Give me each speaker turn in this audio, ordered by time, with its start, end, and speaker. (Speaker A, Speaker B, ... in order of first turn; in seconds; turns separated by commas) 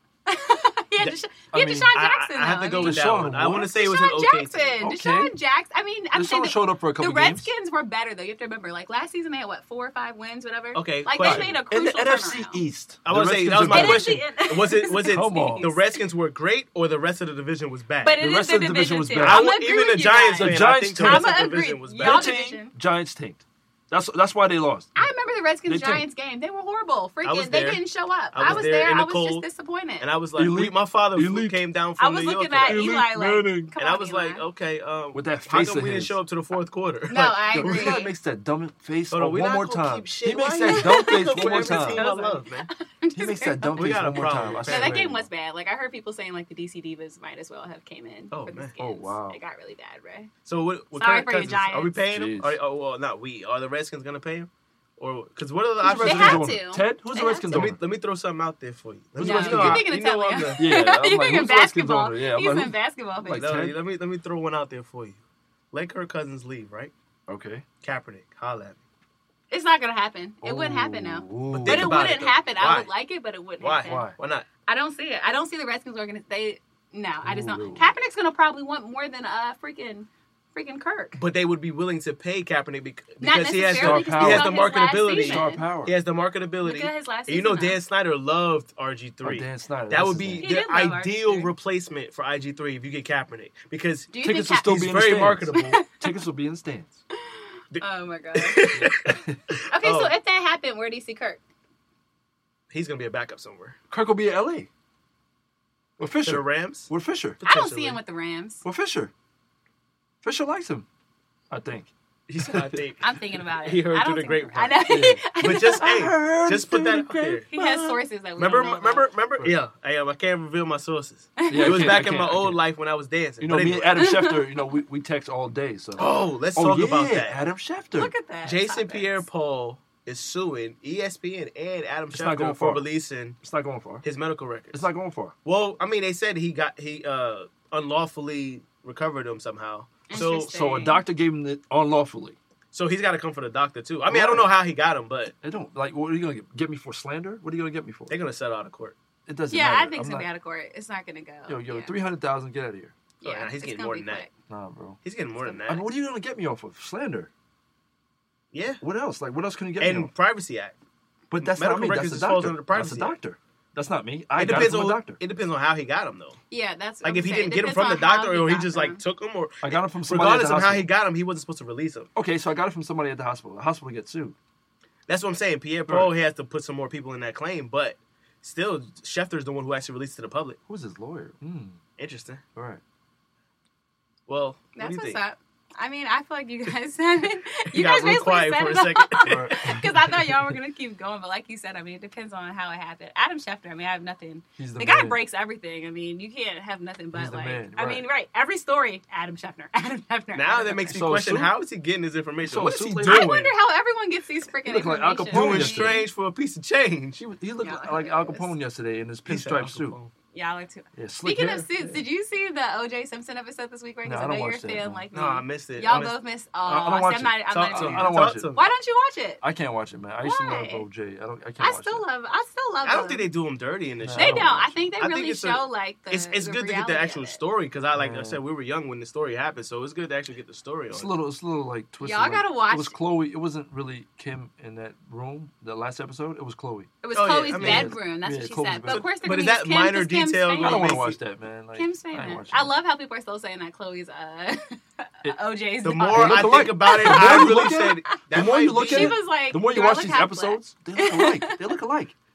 Speaker A: 0.3-3.1, Speaker B: 1.0-1.9, Speaker C: 1.9-4.8, Speaker B: 2.8-3.8, Speaker A: 3.6-12.6, Speaker B: 4.8-5.3, Speaker B: 6.1-7.5, Speaker C: 10.7-11.6, Speaker B: 11.2-14.2, Speaker C: 13.0-18.2, Speaker A: 13.7-16.0, Speaker B: 15.1-15.7, Speaker A: 18.0-22.7, Speaker B: 18.1-19.5, Speaker C: 19.2-22.4, Speaker B: 20.3-21.4, Speaker B: 22.0-25.1, Speaker A: 24.9-30.1, Speaker B: 25.6-26.1, Speaker C: 27.2-29.5, Speaker C: 30.0-32.9, Speaker B: 30.4-31.6, Speaker A: 32.0-34.4, Speaker B: 32.7-33.7, Speaker C: 33.8-38.1, Speaker B: 35.1-36.2, Speaker A: 37.1-38.1, Speaker B: 37.5-42.0, Speaker C: 39.1-42.7, Speaker A: 40.7-43.9, Speaker B: 43.1-45.3, Speaker C: 43.7-45.0, Speaker A: 44.6-50.3, Speaker C: 48.3-48.7, Speaker B: 48.8-49.4, Speaker C: 50.5-56.5, Speaker A: 51.0-51.9, Speaker B: 52.1-52.6, Speaker B: 55.8-57.8, Speaker A: 55.8-57.6, Speaker C: 57.5-60.6, Speaker B: 59.2-59.9, Speaker A: 59.2-63.5, Speaker B: 60.6-63.8, Speaker C: 63.4-65.2, Speaker C: 65.7-66.9, Speaker B: 67.3-67.7, Speaker C: 67.8-68.8, Speaker A: 69.5-74.1, Speaker B: 70.4-72.1, Speaker C: 71.5-72.9, Speaker C: 73.6-74.5, Speaker B: 73.8-74.2, Speaker A: 74.7-81.2, Speaker B: 77.2-77.9, Speaker C: 81.2-95.7, Speaker A: 83.2-85.6, Speaker B: 83.7-86.0, Speaker A: 86.6-87.8, Speaker B: 89.2-90.5, Speaker A: 90.4-91.5, Speaker A: 94.1-94.7, Speaker B: 94.2-97.0, Speaker A: 95.5-96.1, Speaker A: 97.2-98.6, Speaker C: 97.7-100.1, Speaker B: 98.7-99.4, Speaker A: 99.7-101.4, Speaker C: 102.7-103.8, Speaker B: 103.9-104.7, Speaker B: 106.0-107.4, Speaker C: 106.2-108.0, Speaker A: 107.4-108.6, Speaker B: 108.6-109.1, Speaker B: 110.2-110.9, Speaker B: 111.5-112.8, Speaker C: 112.4-117.5, Speaker A: 113.0-115.9, Speaker B: 114.9-118.0, Speaker A: 117.5-119.1, Speaker C: 118.4-124.0, Speaker A: 121.4-122.0, Speaker B: 121.5-122.6, Speaker B: 123.4-128.1, Speaker A: 124.0-124.5, Speaker C: 126.0-127.4, Speaker A: 128.0-129.2, Speaker C: 128.4-133.4, Speaker B: 132.1-132.9, Speaker B: 133.4-134.1, Speaker C: 134.0-134.8, Speaker B: 134.7-135.3, Speaker C: 135.4-140.8, Speaker A: 140.1-141.0, Speaker B: 140.1-142.4, Speaker C: 142.7-145.3, Speaker B: 144.1-144.5, Speaker B: 145.4-148.2, Speaker C: 148.1-148.9, Speaker B: 149.2-150.3, Speaker A: 149.5-151.9, Speaker B: 151.5-152.9, Speaker A: 153.2-154.3, Speaker C: 153.2-154.3, Speaker B: 154.5-155.0, Speaker C: 155.0-155.8, Speaker B: 155.6-157.3, Speaker C: 158.5-158.8, Speaker B: 158.8-160.1, Speaker C: 159.8-160.7, Speaker B: 161.3-165.2, Speaker C: 161.4-163.2, Speaker C: 164.3-166.4, Speaker A: 166.5-169.0, Speaker C: 167.0-172.1, Speaker B: 169.6-170.9, Speaker B: 172.1-174.3, Speaker C: 175.1-180.6, Speaker B: 175.9-176.1, Speaker B: 180.7-181.8, Speaker C: 182.0-182.4, Speaker B: 182.5-182.8, Speaker C: 184.3-185.2, Speaker A: 184.8-200.8, Speaker C: 187.7-189.8, Speaker B: 189.2-190.5, Speaker B: 194.6-195.2, Speaker B: 197.1-198.1, Speaker C: 200.3-203.5, Speaker B: 200.9-201.5, Speaker B: 202.4-203.3, Speaker A: 203.0-206.1, Speaker B: 204.6-206.0, Speaker C: 205.3-207.2, Speaker B: 207.2-210.0, Speaker A: 207.6-208.5, Speaker C: 209.3-210.1, Speaker A: 210.3-219.4, Speaker B: 210.9-211.9, Speaker B: 214.0-215.0, Speaker C: 215.1-216.2, Speaker B: 216.6-218.5, Speaker C: 217.5-218.7, Speaker B: 219.4-222.1, Speaker A: 220.2-220.9, Speaker A: 221.6-223.3, Speaker C: 222.8-231.1, Speaker B: 224.0-224.6, Speaker A: 224.2-227.4, Speaker B: 227.9-228.4, Speaker B: 230.9-236.9, Speaker A: 232.0-233.0, Speaker A: 237.0-241.0, Speaker C: 237.1-237.9, Speaker B: 237.6-239.0, Speaker C: 238.9-241.2, Speaker B: 240.6-242.8, Speaker A: 241.7-247.9, Speaker C: 245.8-249.2, Speaker B: 246.1-252.2, Speaker A: 248.8-251.8